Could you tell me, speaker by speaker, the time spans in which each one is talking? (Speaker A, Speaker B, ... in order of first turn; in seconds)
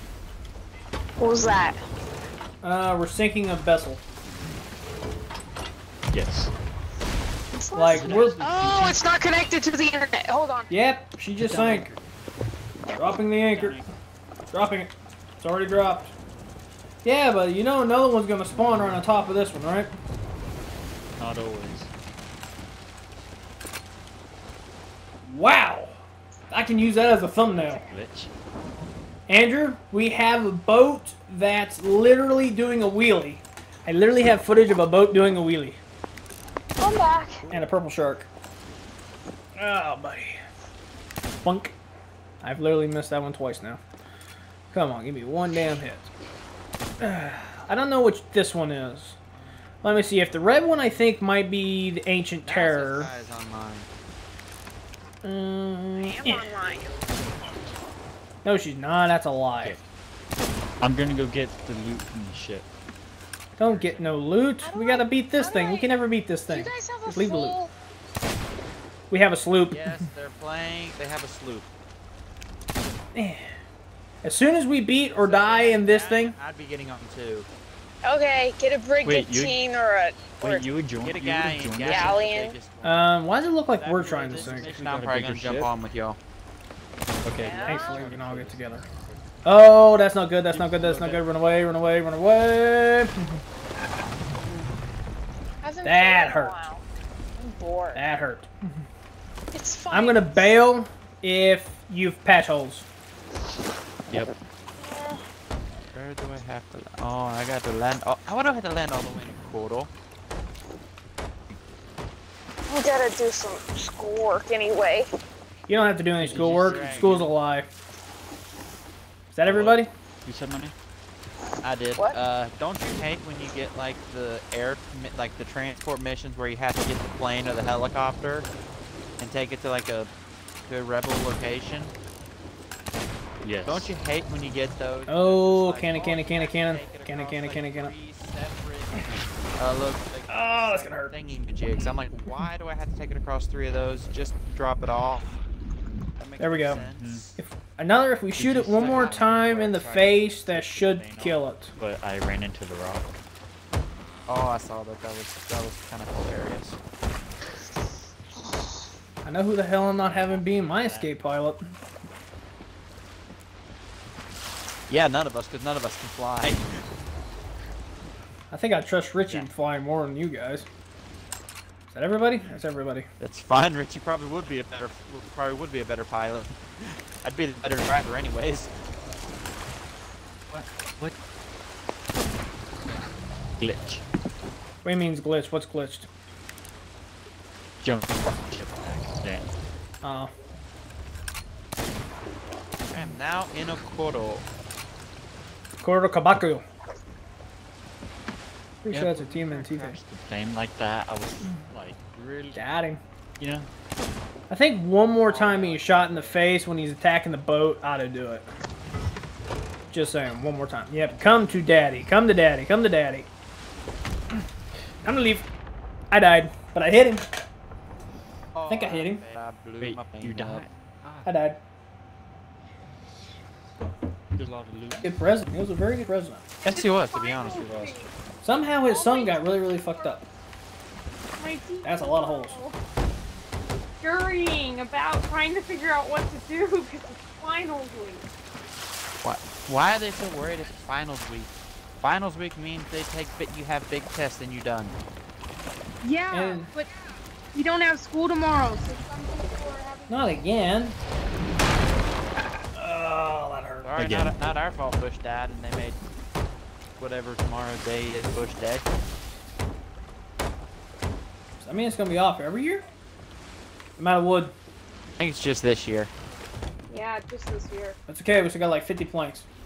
Speaker A: 1.2-1.8, 7.5-10.7, 36.8-37.5, 56.0-56.9, 66.5-67.7, 78.0-80.6, 81.9-82.6, 87.4-88.1, 95.6-96.8, 97.4-98.0, 99.5-100.6, 104.8-105.2, 112.7-115.1
Speaker B: 2.6-4.0, 7.7-8.4, 10.7-11.9, 12.8-13.8, 14.5-16.1, 17.0-19.9, 25.2-26.0, 26.5-27.8, 29.3-35.8, 37.5-38.3, 39.6-40.4, 41.4-41.8, 42.4-43.8, 44.7-46.1, 47.0-49.2, 49.8-53.1, 55.2-56.5, 58.4-59.8, 63.6-67.6, 69.1-69.9, 73.1-73.5, 74.2-76.4, 82.8-84.7, 87.6-88.9, 89.4-93.4, 95.8-96.6, 97.9-98.5, 99.9-102.8, 115.7-117.7, 119.3-119.9, 135.1-137.9, 140.3-141.2, 146.4-146.8, 147.4-151.7, 159.2-161.6, 168.5-170.7, 171.9-173.1, 184.8-186.1, 190.0-190.3, 195.8-196.6, 198.8-200.0, 202.5-203.0, 204.5-208.5, 209.9-213.3, 215.0-215.5, 216.1-217.3, 218.7-219.2, 221.2-221.6, 225.0-226.5, 228.4-230.2, 231.8-232.6, 246.3-246.7, 250.1-250.9, 252.7-253.9, 261.6-262.9, 264.0-264.6, 268.1-269.4
Speaker C: 6.1-6.5, 7.9-9.0, 11.4-12.0, 13.5-13.9, 21.2-21.9, 27.6-28.3, 60.8-62.7, 63.7-64.1, 79.0-79.6, 80.4-82.2, 84.4-85.7, 87.2-89.2, 90.5-91.2, 104.1-104.3, 116.2-117.3, 120.2-120.7, 133.4-133.9, 146.9-147.3, 148.4-153.1, 160.0-161.1, 169.2-169.5, 180.5-181.1, 183.6-184.0, 187.8-189.5, 198.9-202.5, 203.4-203.7, 219.8-221.3, 224.4-225.2, 254.0-254.3
Speaker D: 49.4-50.4, 52.4-53.9, 69.7-71.7, 75.1-77.5, 81.0-83.1, 83.7-86.2, 105.9-109.9, 116.3-117.3, 119.5-119.8, 121.6-128.5, 129.2-130.1, 130.7-131.9, 133.7-145.3, 146.2-147.2, 148.8-149.3, 154.3-156.8, 164.9-166.7, 173.2-178.7, 192.9-194.4, 202.2-202.6, 205.3-206.5, 218.5-220.7, 226.6-228.0, 239.2-245.0, 253.8-256.0, 257.0-258.9, 265.2-266.1
Speaker E: 64.6-65.9, 226.6-228.1, 228.8-230.2, 231.4-232.8, 234.0-238.2, 246.0-250.5, 266.9-268.0